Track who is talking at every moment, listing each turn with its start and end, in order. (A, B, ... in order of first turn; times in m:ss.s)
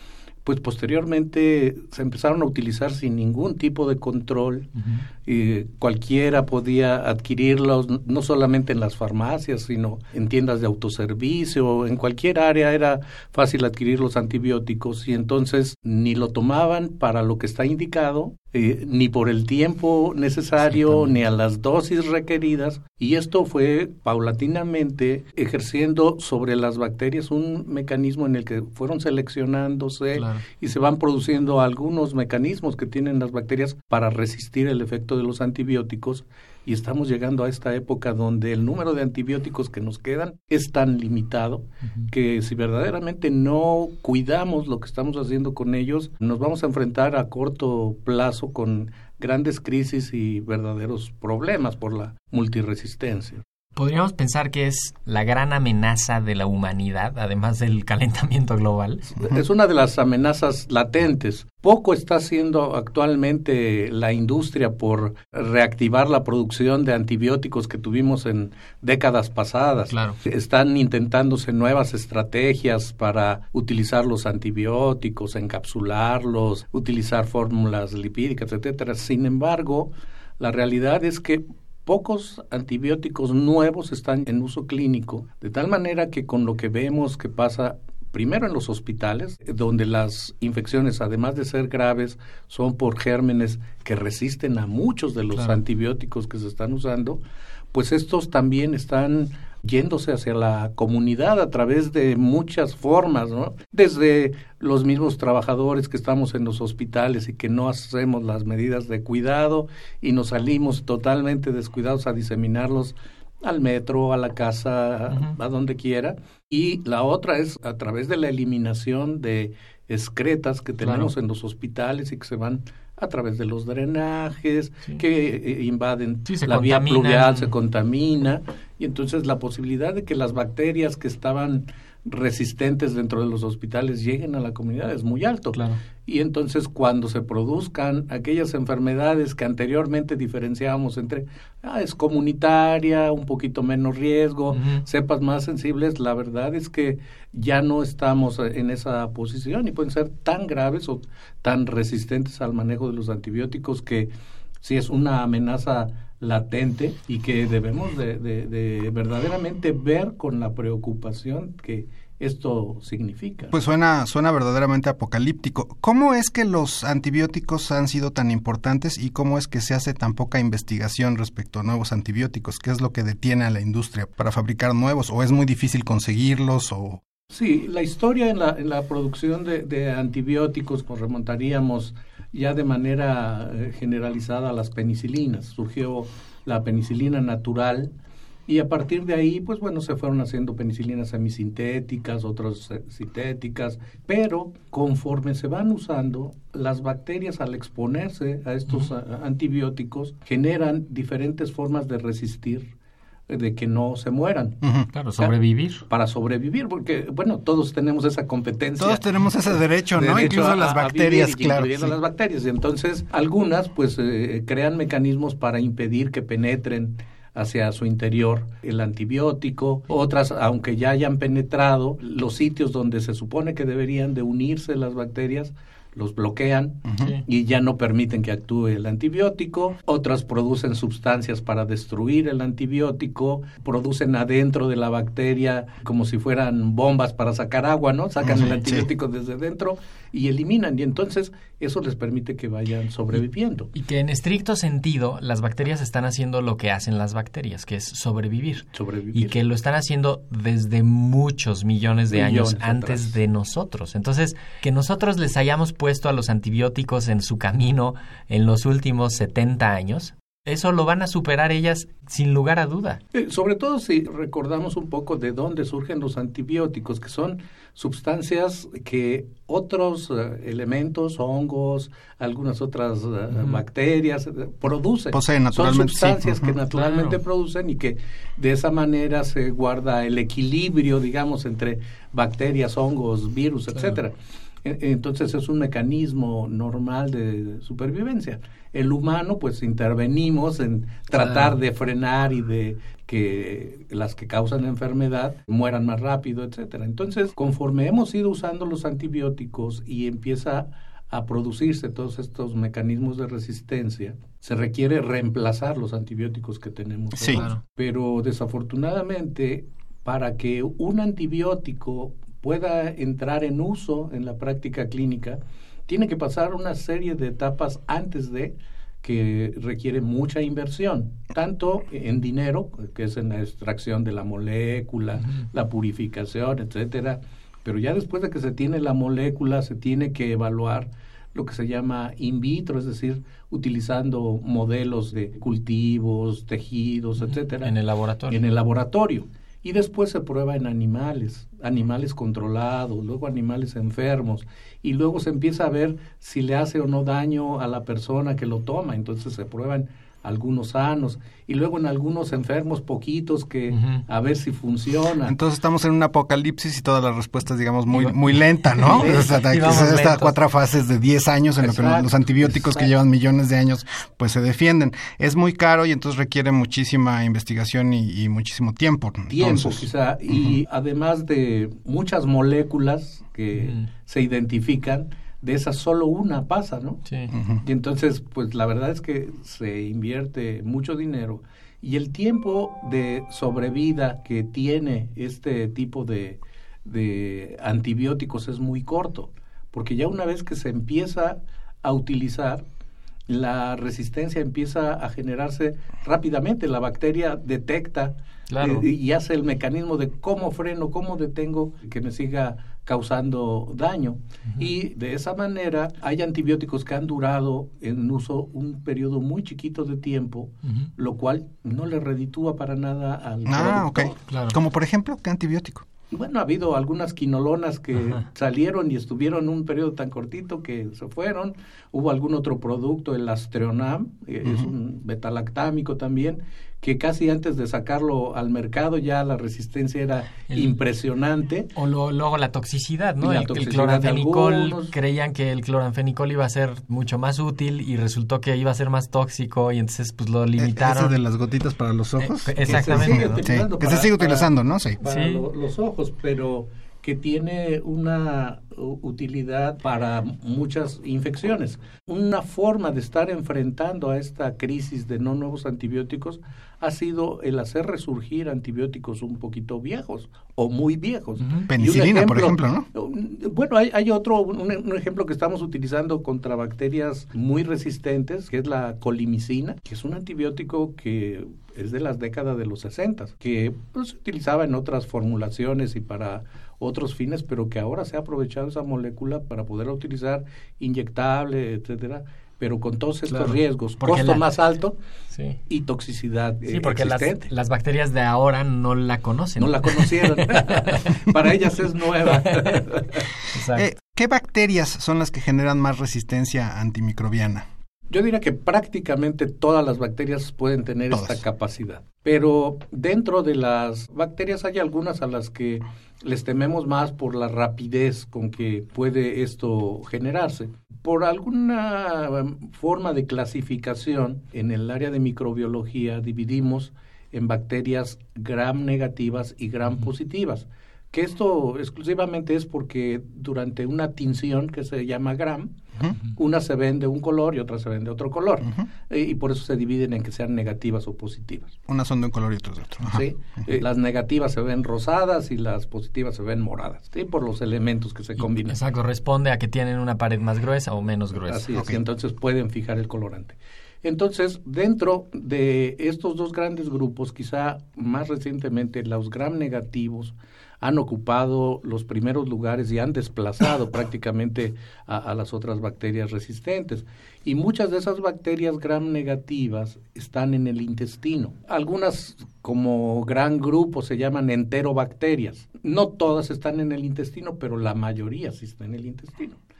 0:00.4-0:04.7 A
0:04.8-0:05.0 B
0:05.2-0:53.4 A
0:30.2-0:30.4 B
0:53.8-0:59.1 B
0:59.2-1:37.2 A
1:09.9-1:10.2 B
1:35.3-1:35.6 B
1:37.7-2:43.6 A
1:55.1-1:55.4 B
2:00.8-2:01.1 B
2:06.3-2:07.5 B
2:15.5-2:15.8 B
2:24.5-2:24.8 B
2:43.5-2:57.0 C
2:57.3-3:07.9 A
3:08.5-3:22.7 A
3:23.3-3:24.6 A
3:24.6-3:24.9 C
3:24.9-3:25.8 B
3:25.9-3:29.0 A
3:28.8-3:32.0 C
3:29.9-4:03.7 A
3:47.0-3:47.2 B
3:58.2-3:58.9 C
4:03.7-4:23.0 B
4:08.7-4:09.4 A
4:12.1-4:13.1 A
4:23.1-5:37.7 A
4:33.3-4:33.6 B
4:35.1-4:36.6 C
4:36.7-4:37.2 B
4:51.1-4:51.6 B
5:07.2-5:07.4 C
5:07.3-5:07.6 B
5:37.2-5:38.4 B
5:38.3-5:55.4 A
5:53.7-5:54.0 B
5:55.2-6:10.6 C
5:57.9-6:00.3 B
5:58.8-5:59.4 A
6:01.6-6:02.9 A
6:09.3-6:17.0 A
6:13.6-6:13.9 B
6:17.3-6:17.6 C
6:17.6-6:32.6 A
6:33.3-6:54.2 A
6:38.5-6:38.9 B
6:53.5-6:55.8 C
6:54.3-6:54.6 B
6:56.1-7:11.7 A
7:04.4-7:04.7 C
7:11.8-7:21.1 B
7:13.2-7:15.0 A
7:20.6-7:25.0 C
7:22.2-7:23.4 B
7:22.6-8:05.0 A
7:25.1-7:25.4 B
7:41.4-7:41.7 B
7:41.7-7:42.9 C
8:03.3-8:04.5 B
8:05.3-8:05.6 B
8:05.7-8:07.5 A
8:06.7-8:11.3 B
8:09.6-8:13.2 A
8:12.3-8:12.8 B
8:13.4-8:13.9 B
8:13.7-8:17.7 C
8:18.1-8:45.8 A
8:21.1-8:21.4 C
8:46.4-8:51.8 A
8:51.9-8:53.8 C
8:53.0-8:58.8 A
8:58.4-9:01.6 B
9:01.5-9:29.6 A
9:01.7-9:02.0 C